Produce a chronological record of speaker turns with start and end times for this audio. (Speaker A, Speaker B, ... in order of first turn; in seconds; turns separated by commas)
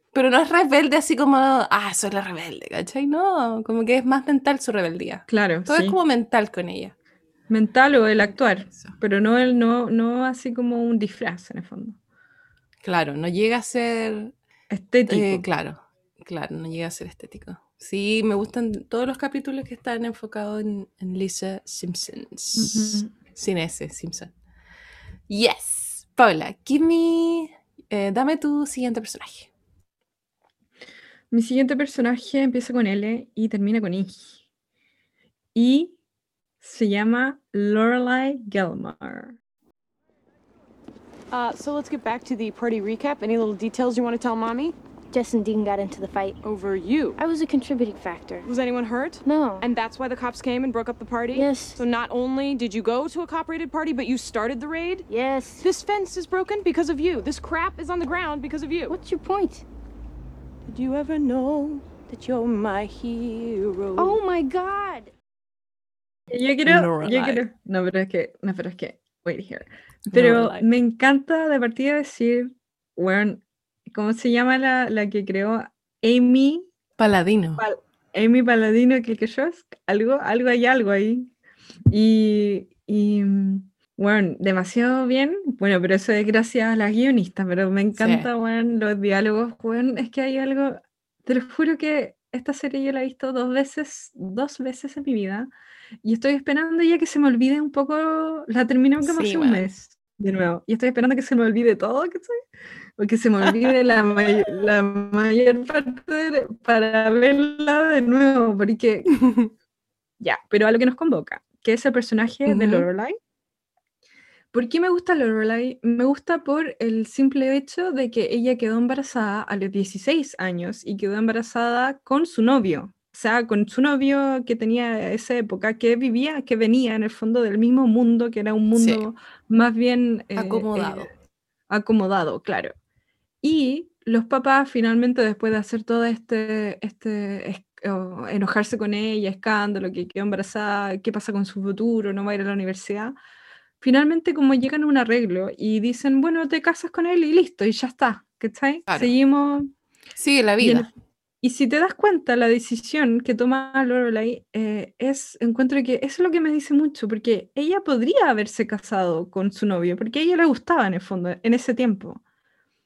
Speaker A: 0.1-6.9, Speaker B: 5.3-6.0, Speaker B: 7.5-12.0, Speaker A: 12.8-14.3, Speaker B: 14.7-15.4, Speaker A: 15.1-24.3, Speaker B: 22.6-23.1, Speaker A: 25.3-29.5, Speaker B: 31.3-34.4, Speaker B: 35.5-35.9, Speaker B: 36.6-39.4, Speaker C: 41.3-44.8, Speaker D: 45.1-46.4, Speaker C: 46.4-47.2, Speaker D: 47.2-48.5, Speaker C: 48.4-59.0, Speaker D: 49.3-49.6, Speaker D: 51.3-51.8, Speaker D: 55.1-55.6, Speaker D: 58.9-59.6, Speaker C: 60.7-65.1, Speaker B: 66.3-76.7, Speaker A: 66.7-67.5, Speaker A: 70.1-70.7, Speaker A: 77.0-77.7, Speaker B: 77.6-81.3, Speaker B: 81.9-95.5, Speaker A: 88.0-88.3, Speaker B: 96.0-102.4, Speaker A: 99.0-99.7, Speaker B: 103.0-109.2, Speaker B: 110.2-113.2, Speaker A: 112.5-112.9, Speaker B: 114.5-131.1, Speaker A: 128.8-129.1, Speaker A: 130.3-131.1, Speaker B: 131.7-132.7, Speaker B: 133.4-143.2, Speaker B: 143.8-149.7, Speaker A: 148.9-149.1, Speaker A: 150.2-150.9, Speaker B: 150.6-150.9, Speaker B: 151.4-162.2